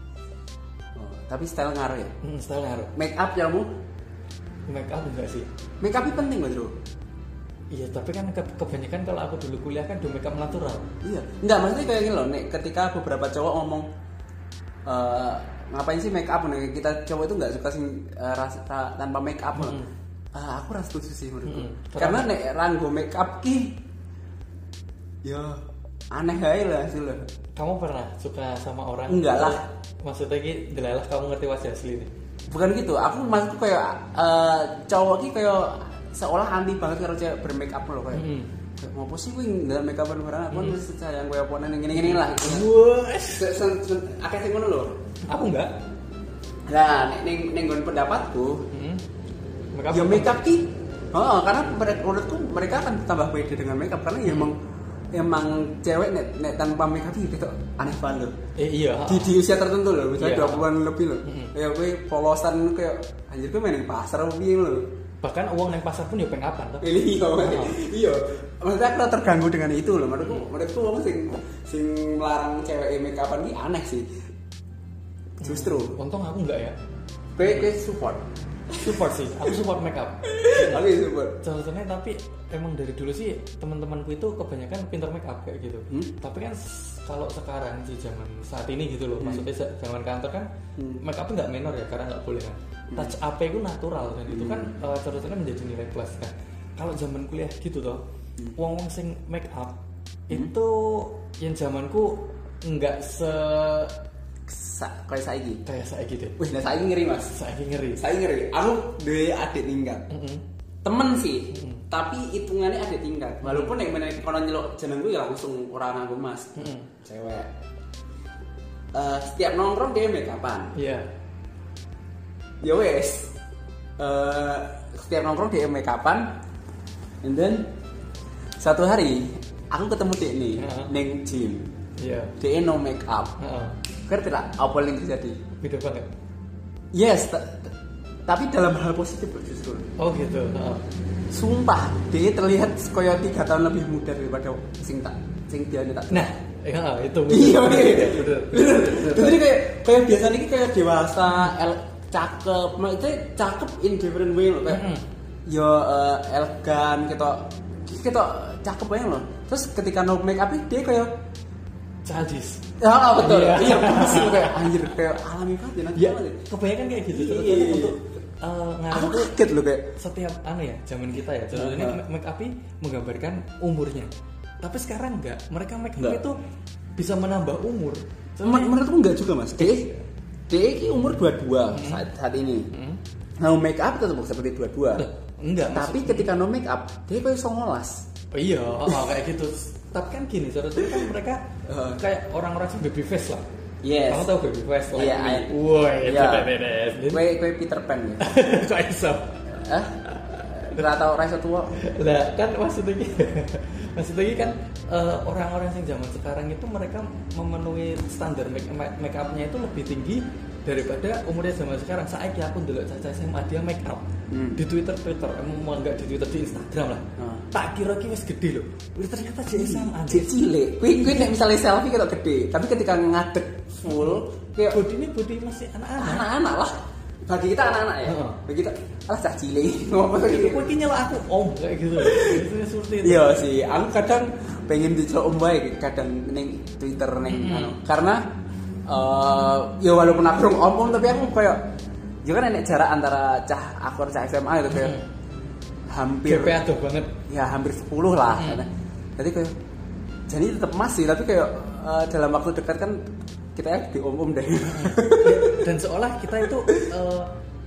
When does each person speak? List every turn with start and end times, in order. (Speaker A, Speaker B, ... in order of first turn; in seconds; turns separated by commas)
Speaker A: 0.9-2.1, Speaker B: 2.2-2.9, Speaker A: 2.9-3.7, Speaker B: 4.7-5.5, Speaker A: 5.8-6.7, Speaker B: 7.7-10.9, Speaker A: 11.0-13.9, Speaker A: 14.8-19.8, Speaker B: 19.5-19.9, Speaker A: 20.3-23.8, Speaker B: 21.4-22.3, Speaker A: 25.2-27.2, Speaker B: 27.6-32.1, Speaker A: 29.1-29.7, Speaker A: 32.5-42.7, Speaker B: 38.1-38.5, Speaker B: 40.5-40.8, Speaker B: 41.9-43.5, Speaker A: 43.3-45.0, Speaker B: 45.2-45.7, Speaker A: 46.7-48.7, Speaker B: 48.7-49.0, Speaker B: 49.7-50.4, Speaker A: 49.9-54.6, Speaker B: 54.2-54.5, Speaker A: 55.1-58.4, Speaker B: 58.5-59.4, Speaker A: 59.0-64.9, Speaker B: 60.2-60.7, Speaker B: 61.2-61.5, Speaker B: 65.2-67.8, Speaker A: 66.8-74.1, Speaker A: 75.4-76.0, Speaker B: 75.4-76.8, Speaker A: 77.3-79.5, Speaker B: 78.7-80.8, Speaker A: 80.2-81.4, Speaker B: 81.4-90.5, Speaker A: 85.9-86.1, Speaker A: 89.2-89.5, Speaker A: 90.8-91.0, Speaker B: 91.0-98.0, Speaker A: 94.3-94.7, Speaker B: 98.5-99.8, Speaker B: 100.3-104.0, Speaker A: 104.5-105.6, Speaker B: 105.7-106.4, Speaker A: 106.4-107.3, Speaker B: 107.3-108.0, Speaker A: 108.0-110.1, Speaker B: 110.1-110.4, Speaker A: 110.8-117.5, Speaker B: 111.5-111.8, Speaker B: 113.4-113.8, Speaker B: 116.5-116.9, Speaker A: 118.9-120.7, Speaker B: 120.7-121.1, Speaker A: 122.6-123.3, Speaker A: 124.0-126.3, Speaker A: 127.2-127.7, Speaker A: 128.6-131.7, Speaker B: 130.6-130.9, Speaker B: 132.0-132.3, Speaker A: 132.4-133.3, Speaker B: 133.4-133.8, Speaker A: 134.1-135.4, Speaker B: 135.6-136.1, Speaker A: 136.9-137.7, Speaker A: 138.3-139.9, Speaker B: 140.0-140.8, Speaker A: 141.3-146.3, Speaker B: 146.1-149.4, Speaker A: 147.3-154.8, Speaker B: 154.7-155.0, Speaker A: 155.4-161.1, Speaker B: 162.0-162.6, Speaker A: 162.8-166.5, Speaker B: 163.1-164.9, Speaker B: 165.9-169.3, Speaker A: 167.1-168.0, Speaker A: 168.9-169.9, Speaker B: 170.0-174.1, Speaker A: 171.5-172.0, Speaker B: 174.6-176.4, Speaker B: 177.0-178.7, Speaker A: 178.4-179.9, Speaker B: 179.6-180.0, Speaker A: 180.5-182.7, Speaker B: 181.7-182.1, Speaker B: 182.7-183.0, Speaker A: 183.4-185.1, Speaker B: 185.0-186.3, Speaker A: 185.7-188.1, Speaker B: 188.3-191.4, Speaker A: 191.7-192.0, Speaker B: 192.0-193.4, Speaker A: 193.8-194.3, Speaker B: 194.1-197.2, Speaker A: 194.9-195.5, Speaker A: 196.0-196.5, Speaker A: 197.1-198.3, Speaker B: 198.2-199.4, Speaker A: 199.6-201.8, Speaker B: 200.1-200.8, Speaker B: 201.8-220.3, Speaker A: 214.3-214.6, Speaker A: 217.2-217.5, Speaker A: 219.5-224.8, Speaker B: 223.9-226.2, Speaker A: 226.0-230.7, Speaker B: 228.1-228.4, Speaker B: 230.3-233.4, Speaker A: 232.0-232.4, Speaker A: 233.0-238.2, Speaker B: 237.3-237.7, Speaker A: 238.9-241.6, Speaker A: 242.2-245.0, Speaker B: 244.7-245.0, Speaker A: 245.9-246.6, Speaker B: 246.2-247.1, Speaker A: 247.3-249.5, Speaker B: 248.3-248.6, Speaker A: 250.3-253.0, Speaker A: 253.6-255.7, Speaker B: 254.7-257.3, Speaker A: 256.4-256.9